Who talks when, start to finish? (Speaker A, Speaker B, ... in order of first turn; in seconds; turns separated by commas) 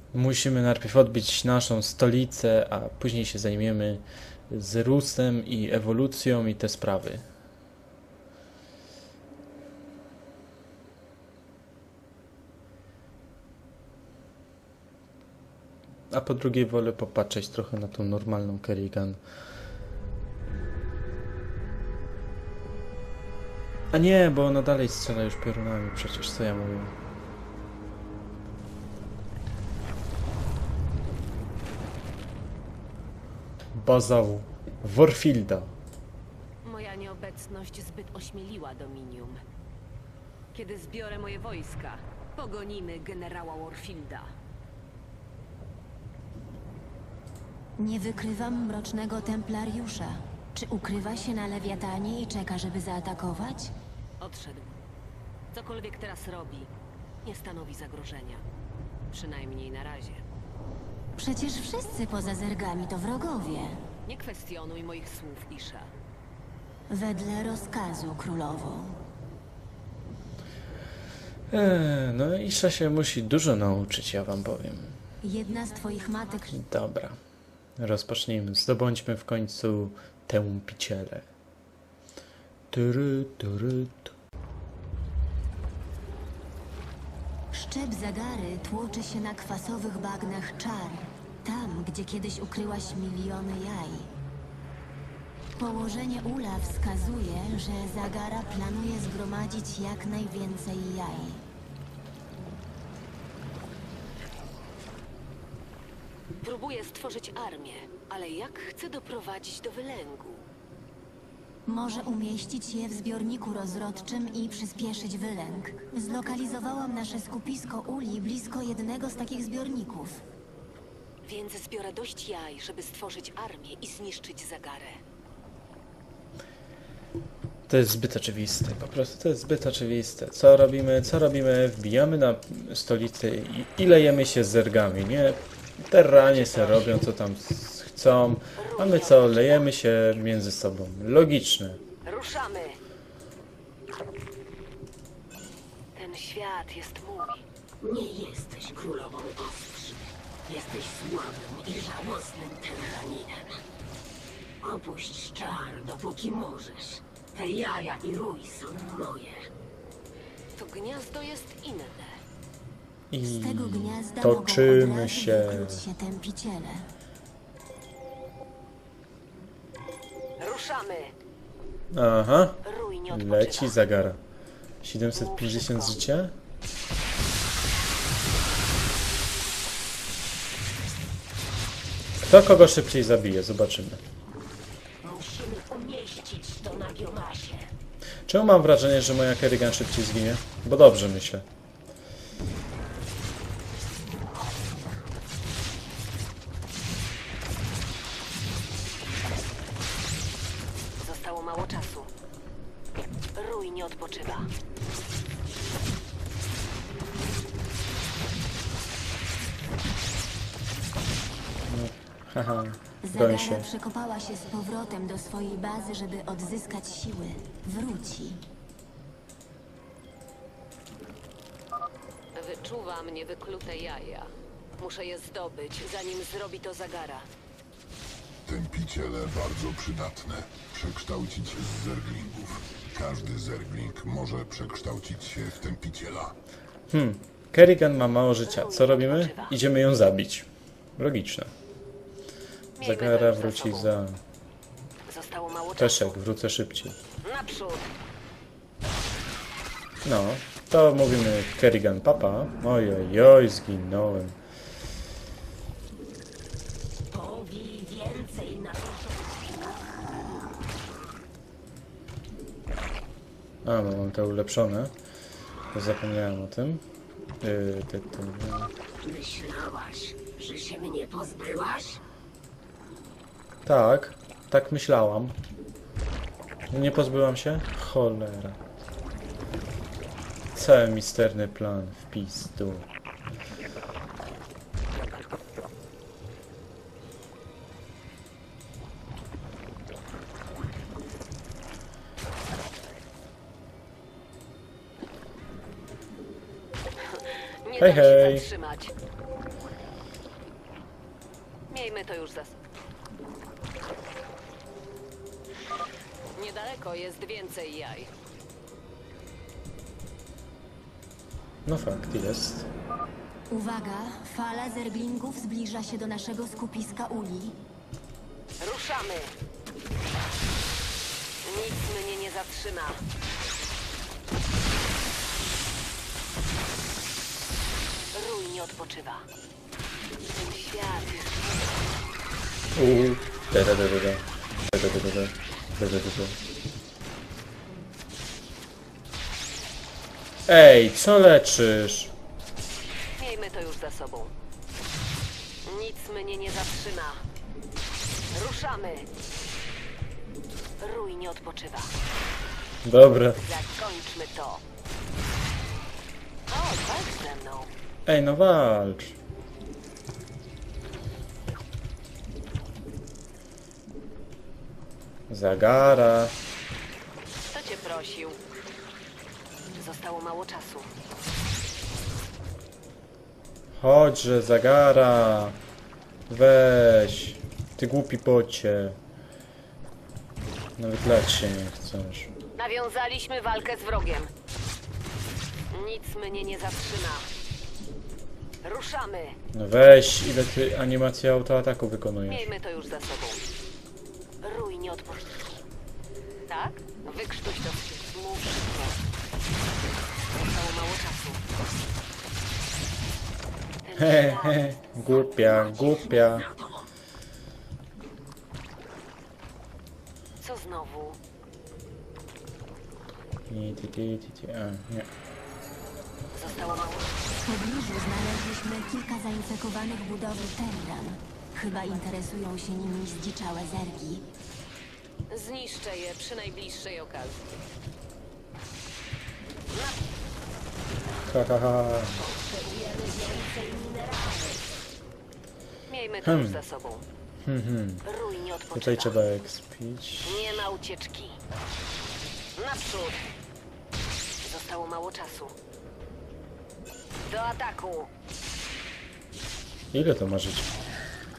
Speaker A: 0.1-7.2, Speaker A: 16.1-19.2, Speaker A: 23.9-26.9, Speaker A: 33.7-35.7, Speaker B: 36.6-39.4, Speaker B: 40.5-44.3, Speaker C: 47.8-53.7, Speaker B: 54.2-54.8, Speaker B: 55.5-56.7, Speaker B: 57.2-58.4, Speaker B: 59.1-60.2, Speaker C: 61.2-63.8, Speaker B: 64.0-65.9, Speaker C: 66.9-69.0, Speaker A: 71.5-75.0, Speaker C: 75.2-76.6, Speaker A: 76.5-77.2, Speaker A: 77.8-81.2, Speaker A: 82.7-84.1, Speaker C: 87.5-94.1, Speaker C: 95.6-101.4, Speaker B: 106.4-110.5, Speaker C: 111.7-120.2, Speaker B: 121.2-125.0, Speaker A: 127.7-141.8, Speaker B: 136.3-137.1, Speaker B: 138.6-139.6, Speaker B: 142.0-142.8, Speaker B: 145.9-147.4, Speaker D: 147.8-153.6, Speaker D: 154.6-159.4, Speaker B: 160.6-162.2, Speaker A: 163.1-165.8, Speaker C: 163.2-166.9, Speaker B: 170.4-171.1, Speaker A: 171.9-174.2, Speaker B: 172.6-173.8, Speaker A: 174.8-176.3, Speaker B: 175.1-175.9, Speaker A: 182.2-184.0, Speaker D: 185.0-187.7, Speaker A: 188.3-191.4, Speaker B: 201.0-202.1, Speaker B: 203.3-204.5, Speaker A: 211.7-213.7, Speaker C: 213.0-218.4, Speaker B: 222.3-227.3, Speaker E: 228.4-236.3, Speaker A: 236.9-241.5, Speaker B: 238.4-239.5, Speaker A: 242.8-244.2, Speaker B: 242.8-243.9, Speaker B: 245.1-246.2, Speaker A: 245.8-247.0, Speaker B: 247.2-247.9, Speaker A: 250.0-254.3, Speaker D: 257.1-259.7, Speaker A: 263.6-264.9, Speaker A: 265.7-266.8, Speaker A: 267.4-268.7, Speaker D: 269.0-272.0, Speaker A: 273.6-275.4, Speaker A: 276.7-278.6, Speaker A: 280.5-282.9, Speaker B: 297.1-298.9, Speaker A: 297.8-298.4, Speaker B: 301.7-302.6, Speaker B: 306.3-308.1, Speaker A: 311.6-312.7, Speaker C: 313.5-317.6, Speaker B: 318.6-319.3, Speaker B: 321.4-323.0, Speaker B: 328.1-329.2, Speaker B: 330.3-331.8, Speaker A: 332.7-336.4, Speaker A: 340.5-342.1, Speaker B: 343.2-344.3, Speaker B: 345.6-347.2, Speaker B: 348.3-349.1, Speaker B: 350.8-351.9, Speaker A: 352.8-353.5, Speaker B: 353.3-354.6, Speaker B: 356.5-357.7, Speaker A: 358.1-359.2, Speaker A: 365.3-366.3, Speaker B: 367.5-368.4, Speaker B: 369.8-370.9, Speaker A: 373.8-375.6, Speaker A: 376.3-379.0, Speaker A: 380.8-382.3, Speaker B: 382.6-384.3, Speaker B: 385.7-387.3, Speaker B: 388.6-389.4, Speaker A: 389.5-392.5, Speaker B: 392.3-393.4, Speaker B: 394.4-395.5, Speaker B: 396.5-399.0, Speaker B: 400.3-401.4, Speaker B: 403.8-404.8, Speaker A: 403.9-406.5, Speaker D: 405.1-406.9, Speaker B: 410.4-411.2, Speaker A: 413.5-415.1, Speaker B: 416.4-417.1, Speaker C: 417.4-424.2, Speaker B: 425.3-427.4, Speaker B: 429.7-430.0, Speaker A: 431.2-432.2, Speaker D: 432.1-434.7, Speaker B: 435.9-437.0, Speaker A: 436.2-436.6, Speaker A: 437.4-438.1, Speaker B: 438.0-439.2, Speaker A: 438.7-440.7, Speaker B: 440.2-441.4, Speaker B: 442.6-443.2, Speaker B: 444.4-445.5, Speaker B: 447.3-448.1, Speaker A: 449.9-450.7